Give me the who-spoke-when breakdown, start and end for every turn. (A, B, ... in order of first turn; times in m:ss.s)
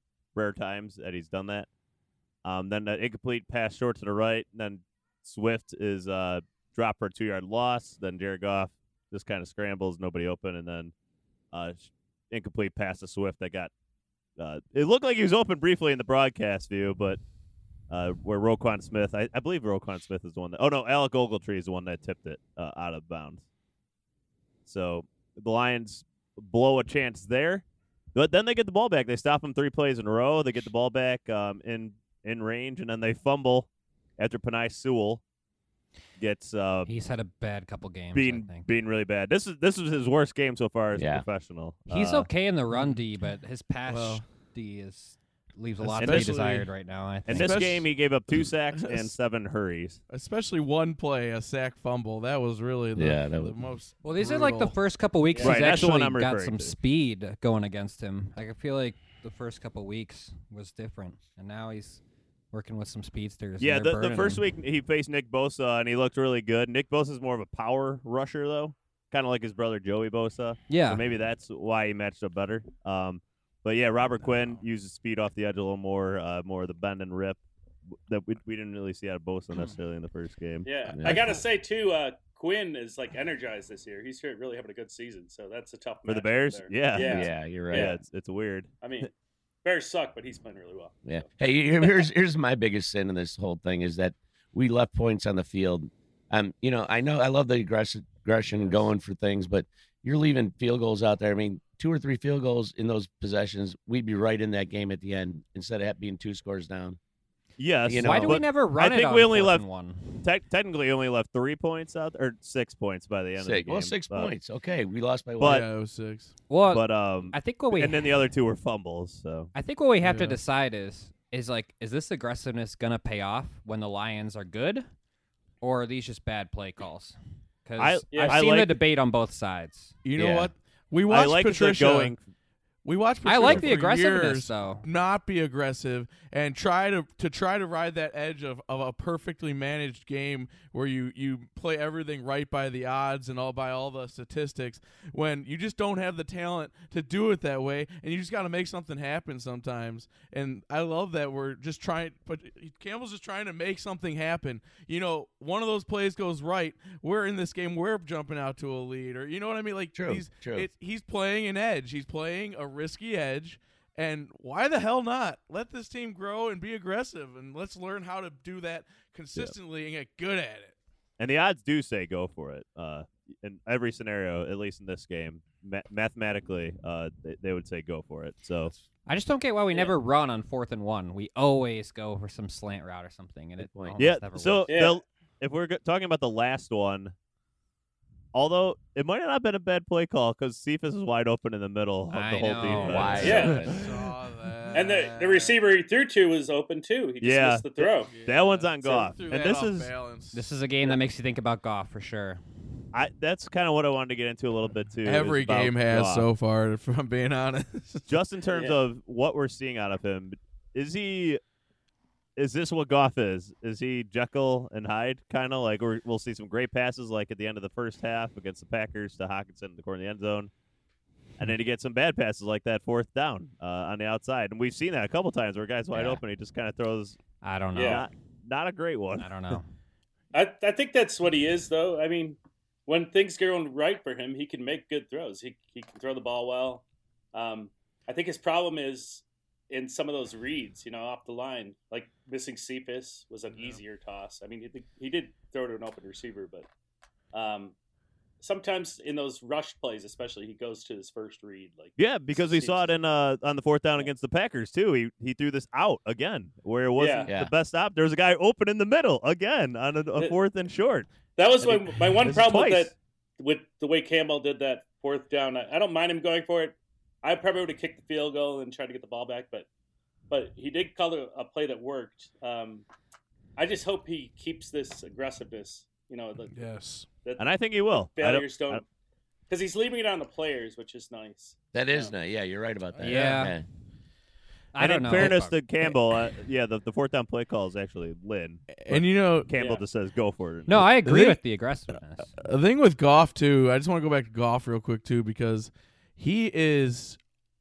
0:00.3-0:01.7 A
0:02.4-0:10.9 A
0:11.5-0:13.7 A
0:14.4-0:17.2 A
0:17.9-0:23.4 A
0:24.6-0:27.6 A
0:28.1-0:35.2 A
0:36.2-0:36.9 A
0:36.8-0:38.7 B
0:38.1-0:42.3 A
0:40.9-0:41.2 C
0:41.9-0:47.6 B
0:42.7-0:43.0 D
0:43.9-0:44.2 D
0:45.8-0:46.7 D
0:46.0-0:46.4 A
0:47.3-0:50.0 A
0:47.3-0:49.1 D
0:50.1-0:54.8 D
0:52.9-0:53.6 C
0:54.0-1:02.0 B
0:55.3-0:55.7 E
0:55.4-0:56.7 A
1:02.5-1:04.4 B
1:03.6-1:17.4 A
1:10.7-1:11.0 B
1:14.2-1:14.6 D
1:18.1-1:20.7 A
1:20.6-1:28.0 E
1:20.9-1:21.4 C
1:21.0-1:21.4 D
1:26.0-1:28.8 A
1:26.9-1:27.9 C
1:28.8-1:29.1 E
1:29.6-1:31.2 E
1:31.0-1:47.0 C
1:47.6-1:49.6 A
1:47.8-1:48.4 C
1:48.0-1:50.3 B
1:50.2-1:54.3 A
1:53.4-1:55.6 C
1:55.4-1:55.6 A
1:55.4-1:56.3 D
1:56.5-1:58.1 B
1:56.7-1:59.5 A
1:59.5-2:04.8 B
2:00.0-2:00.4 D
2:05.6-2:09.9 B
2:07.8-2:08.8 A
2:08.1-2:08.4 E
2:10.0-2:12.1 D
2:10.2-2:10.5 C
2:11.1-2:12.2 A
2:12.8-2:50.7 D
2:13.2-2:14.8 B
2:39.9-2:40.7 C
2:51.2-2:58.7 A
2:59.1-3:04.8 B
3:03.6-3:04.0 C
3:04.0-3:07.1 A
3:04.7-3:05.0 E
3:08.3-3:13.7 A
3:12.1-3:13.7 B
3:12.6-3:13.7 C
3:13.2-3:13.6 E
3:13.6-3:15.6 D
3:14.7-3:18.1 E
3:17.2-3:19.9 A
3:18.1-3:20.5 D
3:20.3-3:22.4 B
3:22.9-3:26.3 A
3:25.0-3:28.0 D
3:28.1-3:31.4 A
3:28.5-3:28.8 E
3:32.4-3:40.5 A
3:41.4-3:47.2 A
3:45.9-3:46.2 B
3:47.4-3:48.0 B
3:47.7-3:48.1 E
3:47.8-3:49.6 A
3:49.2-3:49.7 B
3:50.3-4:06.7 E
4:03.5-4:03.8 D
4:07.3-4:07.7 E
4:08.4-4:12.9 E
4:12.0-4:21.1 A
4:17.0-4:17.3 E
4:17.2-4:17.5 C
4:21.4-4:29.7 E
4:21.6-4:22.9 A
4:30.3-4:32.8 E
4:33.6-4:36.6 E
4:36.5-4:37.1 D
4:37.2-4:38.8 E
4:37.4-4:38.8 A
4:39.5-4:42.1 E
4:41.7-4:43.6 C
4:42.9-4:43.5 D
4:43.0-4:43.5 B
4:44.7-4:45.6 B
4:44.8-4:50.8 A
4:48.8-4:49.5 D
4:49.6-4:49.8 E
4:50.7-4:52.3 B
4:51.0-4:51.4 D
4:52.4-4:57.2 D